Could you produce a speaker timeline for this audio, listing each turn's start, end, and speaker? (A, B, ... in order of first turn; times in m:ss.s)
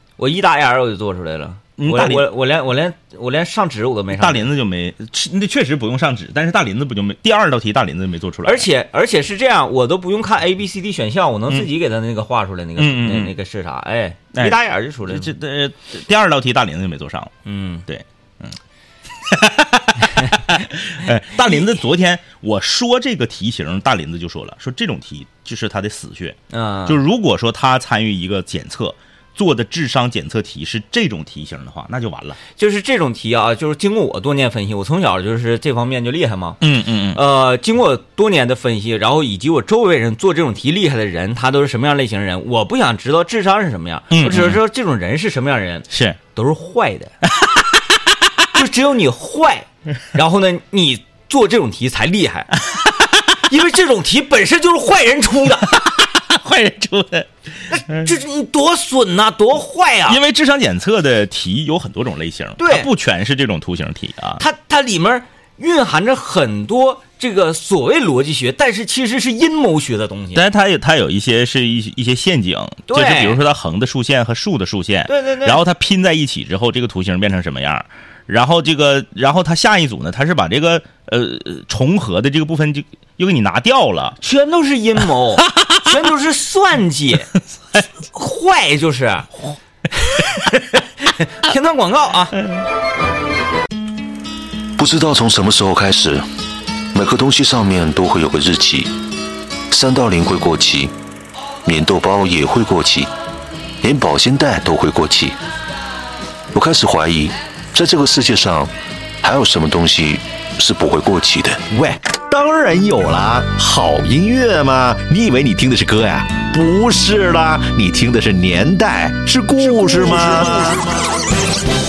0:00.2-0:04.5 A
0:01.8-0:02.3 B
0:04.1-0:08.7 B
0:08.4-0:15.3 A
0:12.8-0:13.3 B
0:14.4-0:17.3 B
0:17.5-0:17.8 A
0:17.9-0:18.6 B
0:19.2-0:32.4 B
0:20.2-0:20.6 A
0:26.5-0:27.0 A
0:32.6-0:36.6 A
0:36.6-0:37.2 B
0:37.1-0:47.1 A
0:44.1-0:44.6 B
0:45.9-0:46.2 B
0:47.4-0:47.6 B
0:48.5-0:52.5 A
0:53.5-0:55.8 A
0:55.7-0:57.3 B
0:57.7-1:00.2 A
1:00.1-1:04.4 B
1:02.6-1:02.9 A
1:04.4-1:10.4 A
1:10.4-1:24.2 B
1:12.9-1:13.4 A
1:15.1-1:15.6 A
1:24.2-1:27.3 A
1:28.1-1:29.3 A
1:30.1-1:32.4 A
1:34.8-1:36.2 C
1:36.9-1:38.9 C
1:39.7-1:40.9 C
1:41.6-1:43.1 C
1:43.8-1:45.4 C
1:46.5-1:51.6 C
1:51.7-2:00.9 D